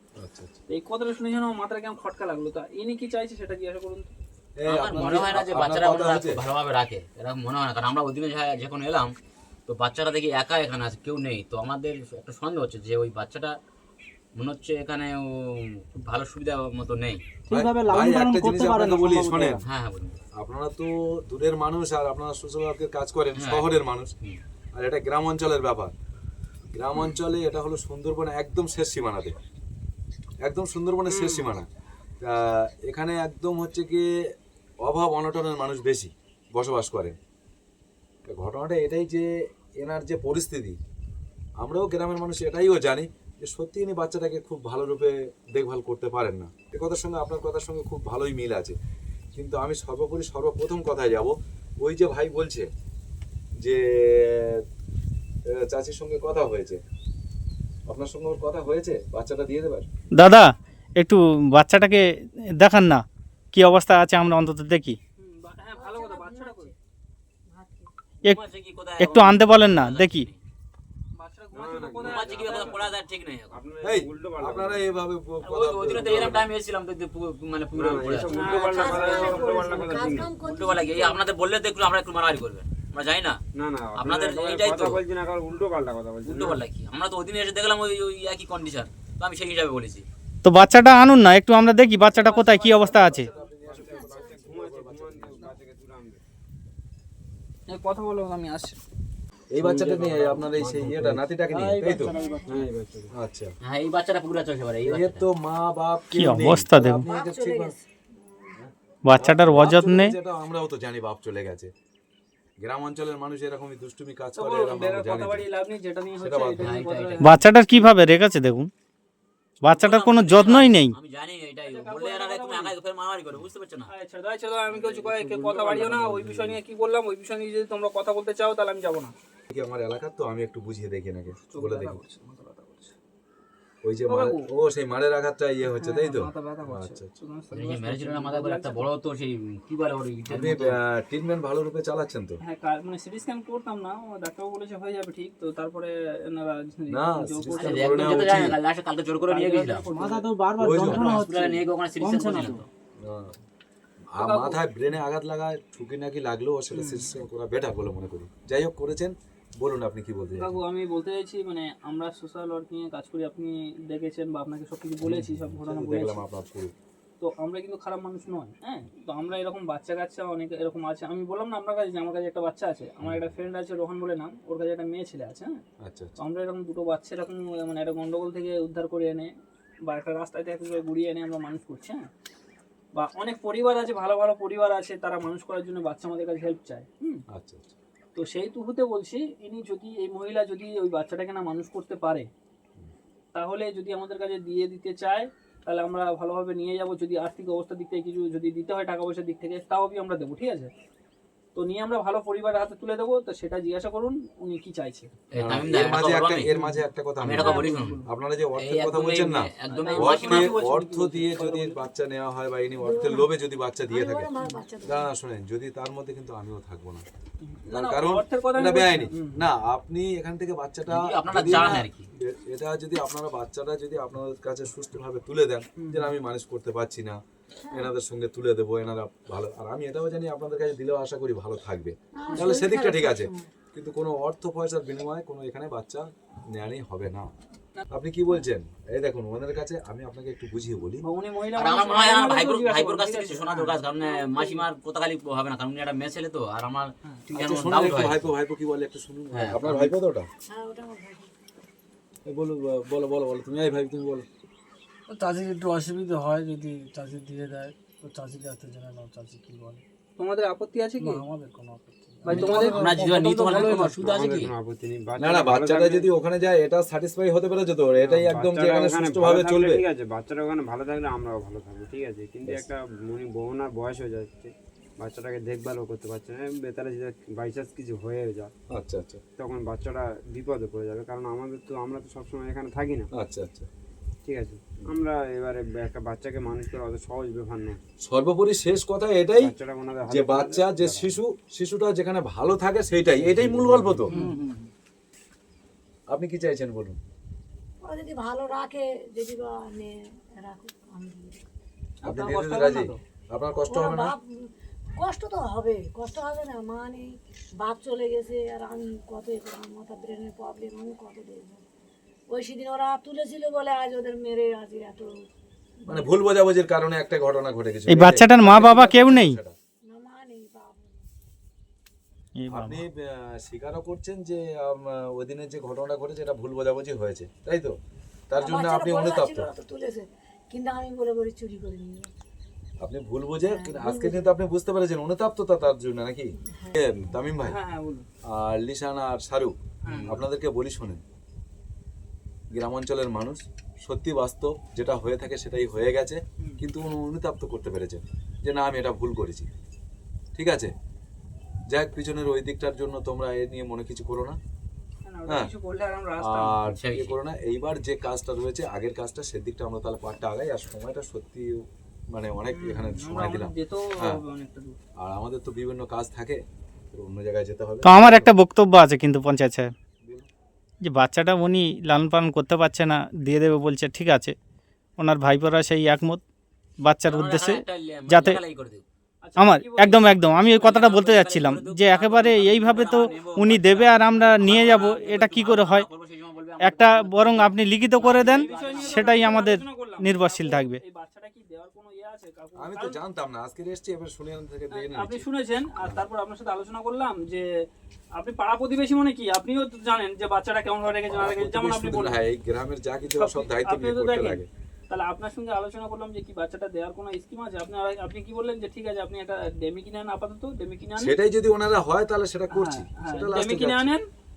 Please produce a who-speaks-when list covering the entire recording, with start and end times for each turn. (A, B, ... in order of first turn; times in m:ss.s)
0:00.2-0:00.6 A
0:00.7-0:04.1 B
0:04.6-0:06.4 A
0:04.7-0:09.1 C
0:09.7-0:13.6 C
0:14.4-0:17.2 C
0:17.5-0:19.6 D
0:17.5-0:19.6 A
0:19.6-0:20.2 C
0:20.4-0:24.1 A
0:23.4-0:23.7 C
0:24.8-0:25.9 A
0:26.8-0:29.4 A
0:30.4-0:31.7 A
0:31.1-0:31.5 B
0:32.2-0:34.1 A
0:34.8-0:37.2 A
0:38.3-0:40.8 A
0:41.6-0:48.8 A
0:49.3-0:52.7 A
0:53.6-0:54.6 A
0:55.5-0:56.8 A
0:57.9-0:59.9 A
1:00.2-1:05.0 E
1:05.2-1:06.7 B
1:05.8-1:06.7 F
1:07.5-1:07.9 F
1:08.2-1:10.4 C
1:09.0-1:10.3 E
1:11.2-1:12.9 B
1:11.5-1:13.0 G
1:12.0-1:13.6 C
1:13.5-1:14.9 G
1:13.8-1:16.5 A
1:15.4-1:18.7 C
1:17.8-1:20.3 G
1:18.3-1:20.1 B
1:18.4-1:21.3 F
1:20.4-1:23.4 C
1:23.6-1:26.6 G
1:24.0-1:25.0 C
1:26.2-1:30.0 C
1:30.4-1:33.3 E
1:32.0-1:33.3 B
1:32.3-1:35.5 A
1:32.9-1:36.2 G
1:33.7-1:34.5 F
1:37.7-1:38.8 B
1:39.5-1:42.1 A
1:39.6-1:41.2 G
1:41.5-1:42.6 H
1:42.0-1:42.6 F
1:42.5-1:43.1 G
1:43.1-1:43.5 A
1:43.6-1:45.3 C
1:44.8-1:47.7 A
1:46.2-1:47.1 E
1:47.1-1:48.6 F
1:48.6-1:51.7 A
1:49.0-1:50.1 E
1:52.6-1:55.5 A
1:54.4-1:57.3 B
1:56.2-1:56.9 A
1:56.6-1:57.4 C
1:57.2-1:58.7 E
1:59.6-2:00.9 E
1:59.7-2:03.9 C
2:01.7-2:02.8 B
2:03.9-2:09.1 B
2:04.7-2:06.6 G
2:09.5-2:12.0 A
2:11.5-2:13.0 B
2:13.8-2:17.1 A
2:14.1-2:14.5 B
2:15.7-2:18.9 B
2:17.5-2:20.8 C
2:20.3-2:22.4 A
2:22.4-2:28.5 B
2:26.9-2:28.6 A
2:27.5-2:29.9 C
2:29.3-2:30.3 B
2:29.9-2:32.6 D
2:30.6-2:31.2 A
2:30.7-2:32.6 C
2:33.0-2:33.4 A
2:34.1-2:40.6 A
2:34.2-2:34.6 B
2:36.7-2:37.1 B
2:40.4-2:46.3 B
2:45.0-2:46.7 A
2:47.2-2:55.6 B
2:53.0-2:53.3 A
2:55.8-2:56.2 A
2:56.2-2:59.3 B
2:59.9-3:02.1 B
3:03.0-3:07.2 B
3:07.3-3:07.8 A
3:08.2-3:12.3 B
3:13.3-3:20.7 B
3:21.6-3:25.1 B
3:25.3-3:26.5 C
3:25.4-3:34.3 A
3:26.5-3:28.1 B
3:27.2-3:28.0 C
3:28.6-3:30.6 C
3:29.7-3:31.8 B
3:32.8-3:33.3 F
3:33.9-3:35.1 F
3:34.8-3:37.0 A
3:37.4-3:39.4 B
3:37.7-3:47.2 A
3:40.9-3:42.1 C
3:45.8-3:46.1 B
3:47.6-3:47.9 F
3:47.7-3:57.3 A
3:52.2-3:53.5 F
3:57.9-4:01.0 A
4:01.0-4:04.6 B
4:01.6-4:08.3 C
4:07.3-4:10.3 A
4:09.3-4:09.9 C
4:10.5-4:11.3 F
4:12.3-4:14.3 A
4:15.1-4:19.8 H
4:20.2-4:21.2 B
4:21.0-4:23.9 H
4:22.2-4:22.9 B
4:22.3-4:24.5 C
4:23.5-4:23.9 B
4:23.9-4:26.1 G
4:25.2-4:29.8 A
4:28.0-4:38.5 G
4:38.7-4:39.2 A
4:39.4-4:43.1 G
4:43.1-4:43.7 A
4:44.3-4:47.8 G
4:48.1-4:49.5 A
4:49.4-4:51.2 G
4:50.1-4:54.1 A
4:53.2-4:54.0 G
4:54.1-4:54.4 B
4:54.1-4:54.7 H
4:56.1-4:57.0 A
4:57.8-5:01.4 F
5:02.0-5:03.0 B
5:02.0-5:04.2 A
5:03.7-5:04.3 F
5:05.0-5:11.6 F
5:12.3-5:15.1 F
5:15.8-5:16.1 F
5:15.9-5:19.6 A
5:17.9-5:19.4 E
5:19.8-5:21.1 F
5:22.4-5:22.8 E
5:22.5-5:27.8 A
5:28.3-5:29.5 A
5:28.4-5:32.1 F
5:32.8-5:37.6 A
5:33.5-5:34.3 F
5:37.4-5:38.1 B
5:38.3-5:39.6 A
5:39.8-5:40.1 B
5:39.9-5:40.2 C
5:40.1-5:41.0 A
5:42.5-5:49.5 A
5:50.4-5:50.7 A
5:51.7-5:54.4 A
5:55.1-5:56.6 B
5:55.3-5:55.5 A
5:56.2-6:04.2 A
5:56.8-5:57.2 C
6:02.5-6:04.8 B
6:05.0-6:08.3 A
6:07.8-6:09.7 E
6:10.0-6:10.3 A
6:10.8-6:14.4 E
6:15.0-6:16.2 E
6:16.8-6:18.4 E
6:17.1-6:18.8 C
6:19.2-6:20.9 B
6:19.4-6:25.9 E
6:20.6-6:29.5 C
6:22.7-6:23.1 B
6:26.6-6:30.8 E
6:28.0-6:33.0 B
6:32.6-6:35.3 A
6:34.7-6:37.5 B
6:35.8-6:36.0 A
6:38.2-6:42.2 B
6:41.1-6:44.5 A
6:43.1-6:51.2 B
6:51.0-6:53.9 A
6:52.5-6:54.0 B